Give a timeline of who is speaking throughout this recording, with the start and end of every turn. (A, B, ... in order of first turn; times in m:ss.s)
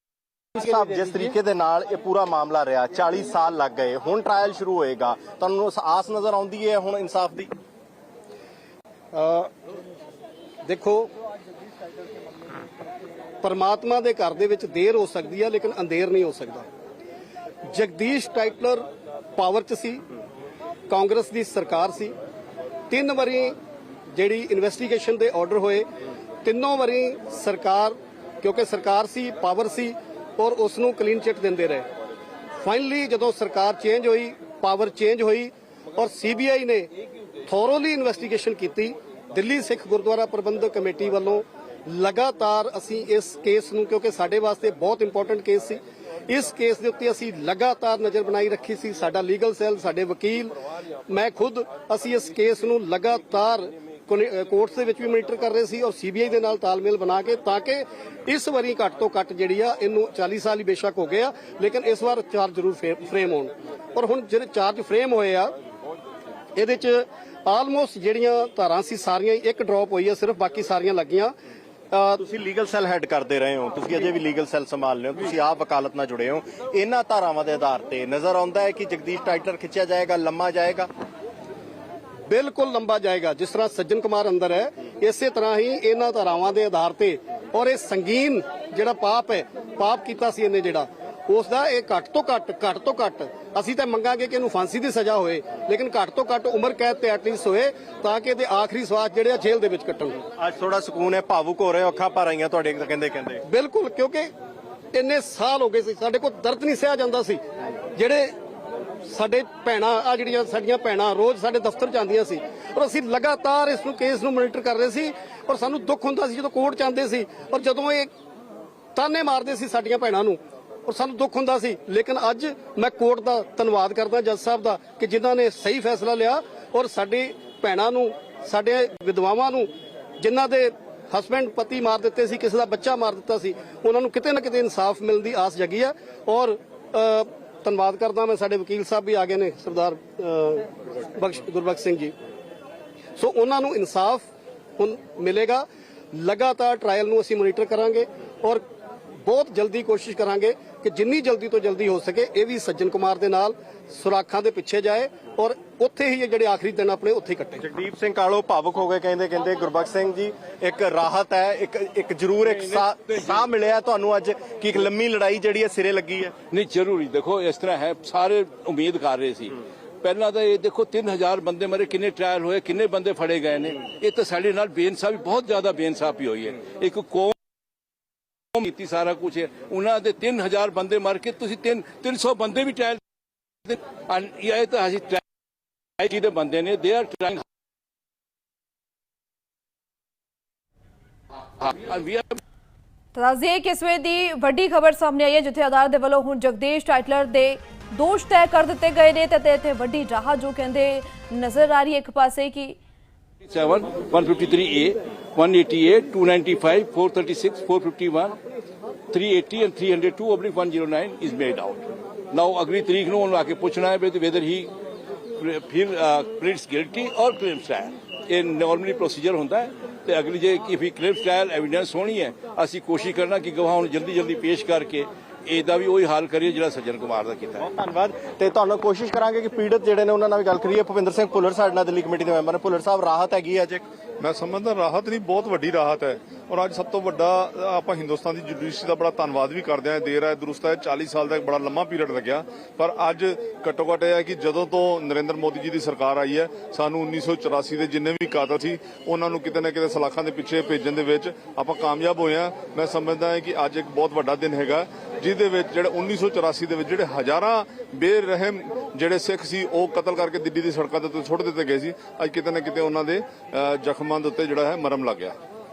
0:00.6-0:07.5 A
0:09.1-0:09.5 B
0:10.6-0:11.1 B
0:13.4-0:16.7 B
0:17.7-0:20.0 B
0:20.9-0:22.1 B
0:22.9-0:23.6 B
0:24.1-0:25.9 B
0:26.4-0:31.9 B
0:32.6-0:36.9 B
0:37.5-0:50.5 B
0:51.1-1:05.5 B
1:06.6-1:11.3 B
1:11.9-1:12.2 B
1:12.2-1:20.9 A
1:22.3-1:40.2 B
1:40.4-1:43.4 A
1:43.5-1:44.3 B
1:44.9-1:47.4 B
1:47.9-1:48.3 B
1:49.1-1:58.1 B
1:59.0-2:09.7 B
2:10.2-2:22.1 B
2:23.2-2:24.2 B
2:24.8-2:28.6 B
2:29.2-2:37.6 B
2:37.6-2:46.3 A
2:42.5-2:43.5 C
2:46.5-2:57.3 C
2:58.5-3:03.0 C
3:03.6-3:05.2 C
3:06.0-3:07.4 C
3:11.6-3:12.4 C
3:13.1-3:22.8 D
3:23.4-3:28.4 C
3:29.1-3:34.7 C
3:35.4-3:47.7 C
3:47.6-3:53.8 A
3:54.2-4:25.4 E